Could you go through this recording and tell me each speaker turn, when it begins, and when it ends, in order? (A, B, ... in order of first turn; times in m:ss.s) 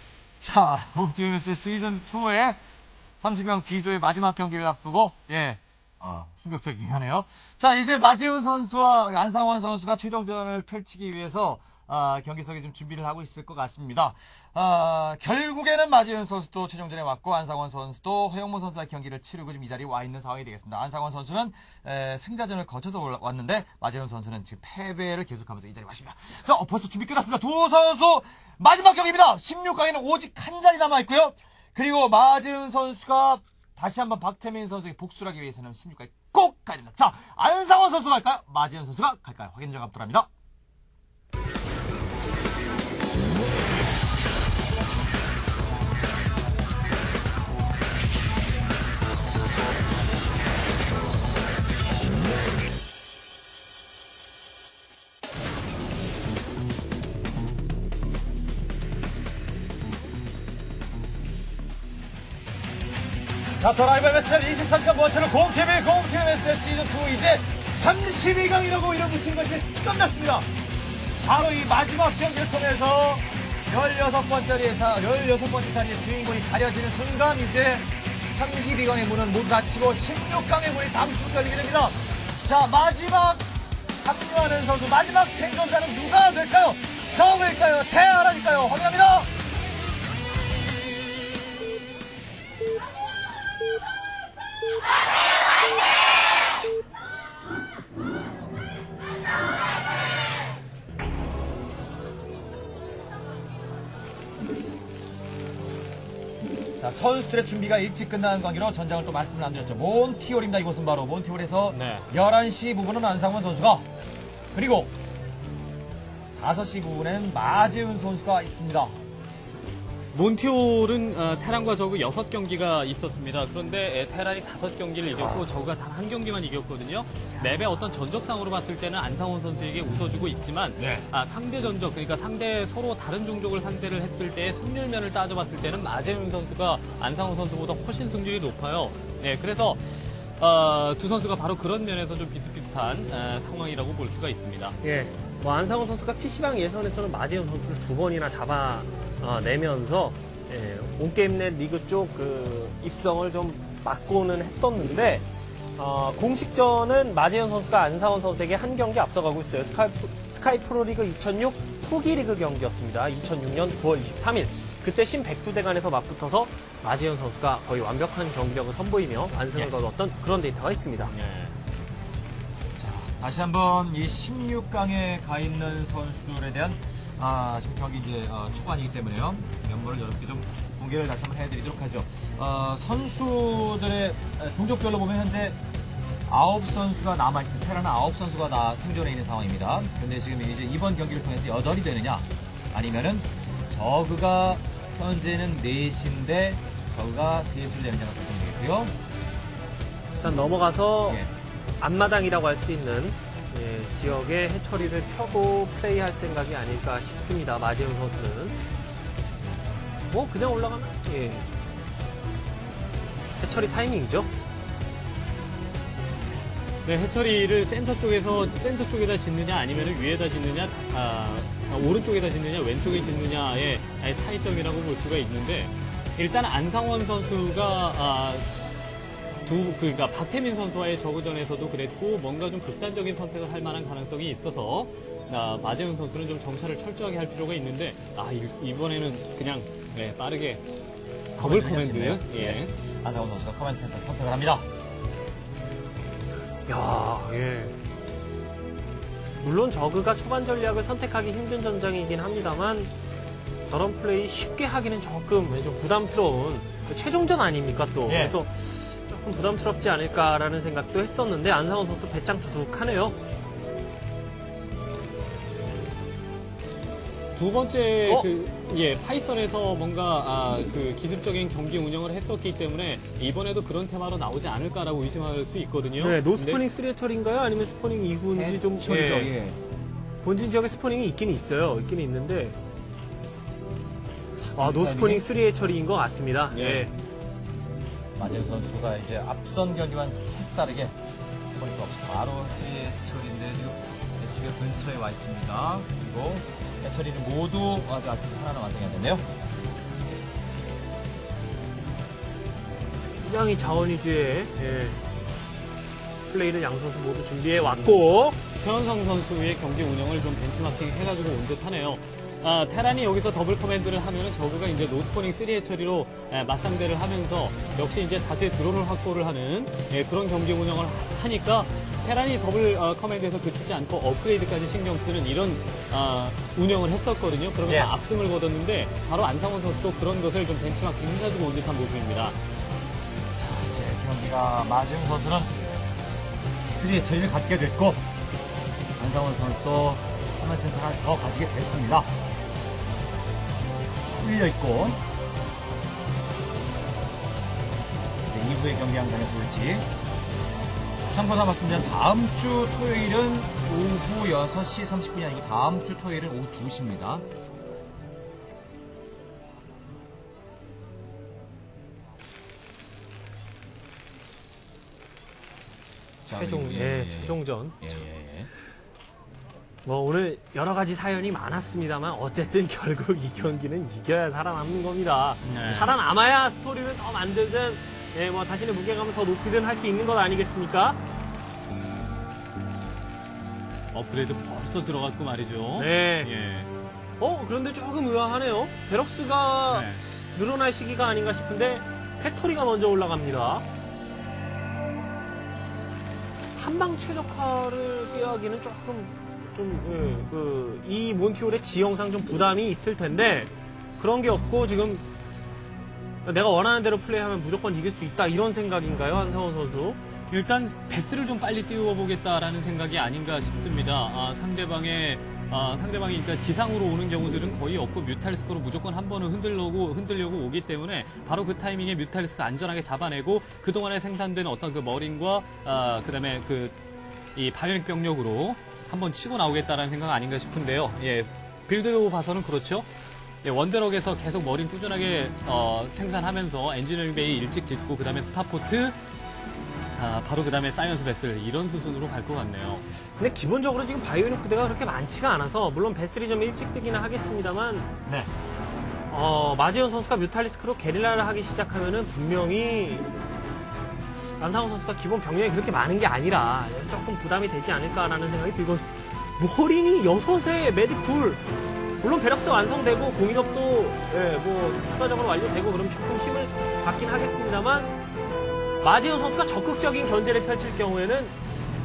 0:00.4-0:02.6 A
0:03.2-0:40.3 A
1:03.6-1:10.5 A
1:11.2-1:23.5 A
1:24.0-1:29.3 A
1:46.8-1:53.8 A
1:51.7-1:52.0 B
1:54.5-1:54.9 A
1:56.4-1:59.0 A
2:00.1-2:24.8 B
2:10.8-2:11.1 A
2:24.8-2:35.3 C
2:35.8-2:51.1 C
2:51.1-2:51.6 B
2:52.8-3:05.6 A
3:06.3-3:18.9 A
3:20.2-3:21.2 C
3:21.8-3:28.6 C
3:30.1-3:31.5 C
3:33.4-3:34.3 C
3:36.8-3:48.5 B
3:49.4-4:00.6 B
4:01.4-4:04.6 A
4:01.4-4:02.7 B
4:06.7-4:07.8 C
4:09.4-4:12.9 C
4:13.7-4:23.2 C
4:18.1-4:18.4 A
4:27.4-4:36.6 B
4:36.0-4:39.4 C
4:38.4-4:39.6 A
4:40.2-4:42.6 C
4:44.5-4:46.9 C
4:44.6-4:45.2 A
4:46.5-4:46.9 B
4:48.2-4:50.9 A
4:51.5-4:59.2 A
5:03.2-5:05.0 C
5:06.3-5:08.4 C
5:08.6-5:32.4 B
5:27.7-5:28.0 A
5:33.4-5:35.9 A
5:36.7-5:38.0 A
5:39.0-5:42.1 A
5:44.1-5:45.0 A
5:48.3-5:49.9 A
5:51.1-5:57.2 A
6:06.3-6:08.5 A
6:06.3-6:07.8 C
6:09.9-6:21.0 C
6:15.4-6:16.0 B
6:23.9-6:26.7 B
6:25.8-6:26.3 C
6:27.2-6:33.6 C
6:29.7-6:30.0 B
6:36.5-6:45.0 C
6:46.2-6:50.0 C
6:50.3-7:06.8 B
7:07.4-7:12.9 B
7:13.4-7:19.0 B
7:20.0-7:22.8 B
7:23.2-7:27.9 C
7:29.1-7:33.1 C
7:34.4-7:38.9 C
7:39.4-7:41.4 C
7:42.0-7:47.9 C
7:48.8-7:51.4 C